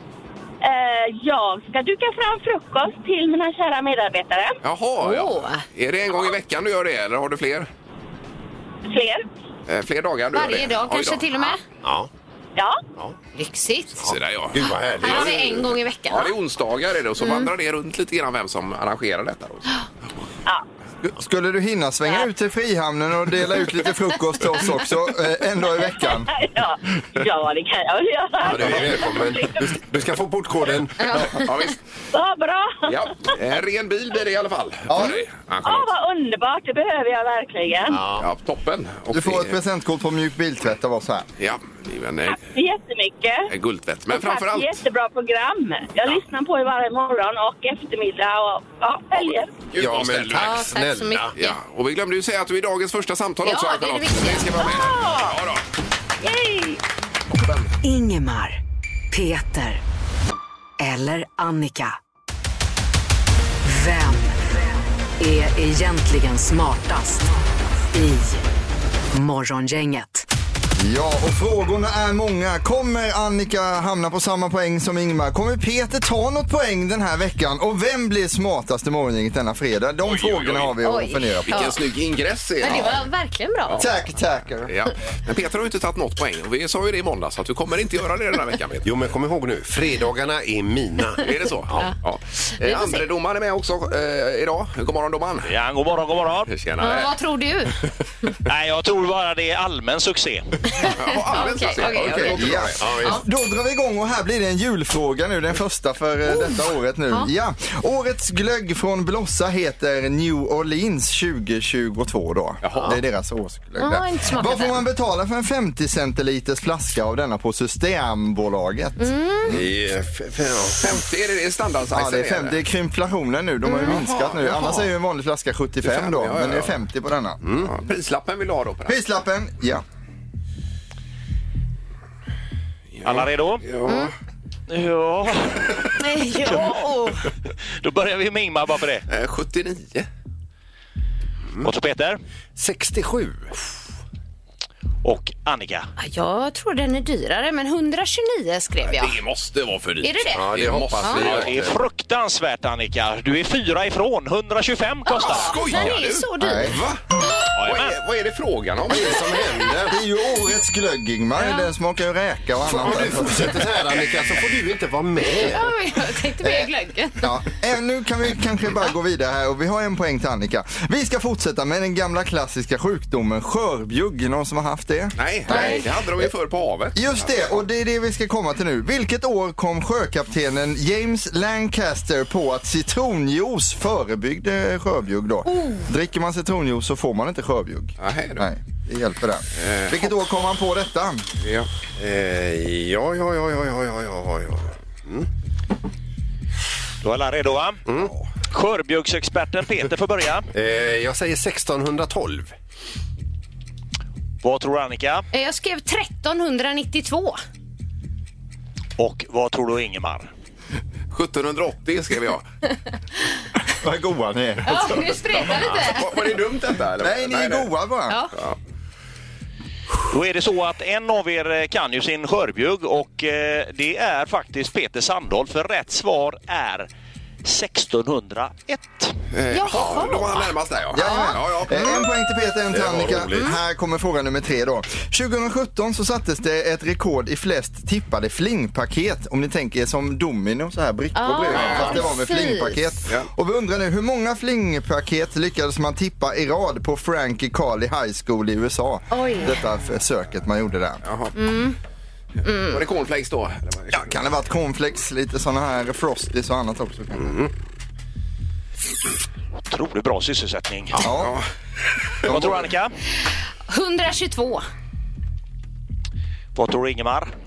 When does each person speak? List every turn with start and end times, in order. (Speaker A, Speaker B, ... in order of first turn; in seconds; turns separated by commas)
Speaker A: 0.6-4.6, Speaker B: 4.6-7.7, Speaker C: 5.0-5.6, Speaker A: 8.9-9.2, Speaker B: 9.7-11.6, Speaker C: 10.3-11.6, Speaker D: 11.8-12.1, Speaker A: 12.6-12.8, Speaker C: 13.3-14.0, Speaker D: 14.0-15.7, Speaker B: 14.0-15.5, Speaker C: 15.0-16.3, Speaker B: 16.1-19.7, Speaker C: 17.2-17.5, Speaker E: 21.0-26.3, Speaker A: 26.3-29.7, Speaker D: 28.4-31.2, Speaker C: 31.0-31.7, Speaker B: 31.3-31.8, Speaker A: 32.1-33.0, Speaker B: 32.9-35.9, Speaker E: 34.9-35.2, Speaker A: 35.6-38.0, Speaker D: 37.9-38.3, Speaker B: 38.1-39.6, Speaker E: 39.1-41.3, Speaker B: 41.4-42.5, Speaker A: 42.2-43.5, Speaker B: 43.5-44.8, Speaker A: 44.1-49.5, Speaker B: 49.7-50.7, Speaker D: 49.8-51.3, Speaker C: 50.3-51.6, Speaker B: 51.4-55.6, Speaker C: 53.4-54.7, Speaker A: 54.6-55.4, Speaker A: 56.2-56.8, Speaker F: 57.8-58.6, Speaker F: 59.1-59.8, Speaker F: 60.8-62.0, Speaker F: 63.6-64.6, Speaker F: 65.2-67.3, Speaker F: 67.9-68.4, Speaker F: 69.1-70.2, Speaker E: 70.8-81.7, Speaker B: 80.0-80.8, Speaker C: 80.8-81.8, Speaker B: 81.4-83.1, Speaker C: 82.6-83.8, Speaker E: 83.8-84.7, Speaker B: 84.6-88.9, Speaker D: 88.8-91.9, Speaker B: 91.2-95.5, Speaker C: 92.5-93.0, Speaker G: 95.4-96.5, Speaker B: 96.5-97.1, Speaker C: 96.8-97.7, Speaker G: 98.5-100.5, Speaker B: 100.8-102.8, Speaker C: 100.8-103.2, Speaker E: 101.8-119.6, Speaker D: 102.8-103.2, Speaker C: 106.3-106.5, Speaker B: 112.6-113.0, Speaker C: 113.8-114.8, Speaker C: 119.0-119.5, Speaker D: 119.5-121.0, Speaker B: 120.8-122.6, Speaker E: 121.9-127.4, Speaker C: 123.6-124.0, Speaker B: 123.8-124.9, Speaker B: 125.8-126.7, Speaker D: 127.4-127.7, Speaker B: 127.5-129.0, Speaker E: 128.9-129.8, Speaker B: 132.9-134.1, Speaker G: 133.0-133.6, Speaker G: 134.7-137.1, Speaker C: 136.0-137.1, Speaker G: 137.8-139.0, Speaker B: 139.1-140.1, Speaker G: 141.6-142.2, Speaker D: 142.6-143.5, Speaker G: 145.0-145.9, Speaker C: 146.0-149.2, Speaker B: 148.8-151.6, Speaker C: 150.0-150.4, Speaker D: 150.3-151.8, Speaker C: 151.0-151.2, Speaker G: 151.2-155.6, Speaker C: 155.1-156.7, Speaker B: 155.2-157.0, Speaker E: 155.7-156.8, Speaker G: 157.6-158.0, Speaker B: 157.6-159.4, Speaker D: 158.9-160.0, Speaker E: 159.9-163.7, Speaker C: 161.4-161.7, Speaker D: 162.6-165.7, Speaker C: 165.2-167.3, Speaker E: 166.4-176.3, Speaker B: 175.2-177.6, Speaker C: 175.5-175.8, Speaker E: 176.9-191.3, Speaker C: 185.5-185.8, Speaker B: 188.0-188.4, Speaker B: 189.6-190.1, Speaker B: 191.4-191.7, Speaker D: 192.0-195.3, Speaker G: 197.0-197.8, Speaker D: 197.9-198.1, Speaker G: 198.5-200.5, Speaker D: 200.5-202.5, Speaker G: 204.4-205.2, Speaker C: 205.3-207.4, Speaker G: 209.0-210.3, Speaker B: 211.1-212.5, Speaker E: 213.8-215.4, Speaker C: 214.6-216.2, Speaker B: 215.5-217.7, Speaker E: 217.0-218.2, Speaker C: 218.1-218.3, Speaker G: 220.1-226.9, Speaker G: 227.4-229.2, Speaker B: 229.3-232.0, Speaker C: 229.5-230.4, Speaker E: 230.9-251.0, Speaker C: 231.0-232.0, Speaker D: 232.7-233.5, Speaker C: 241.1-242.9, Speaker B: 241.5-242.0, Speaker C: 249.1-249.5, Speaker B: 251.0-251.3, Speaker C: 251.3-251.8, Speaker C: 252.4-252.8, Speaker B: 252.7-254.1, Speaker E: 253.9-257.4, Speaker D: 257.2-257.5, Speaker G: 259.7-261.0, Speaker E: 260.9-261.4, Speaker B: 261.2-261.4, Speaker G: 262.2-262.9, Speaker C: 263.7-264.7, Speaker G: 266.5-267.3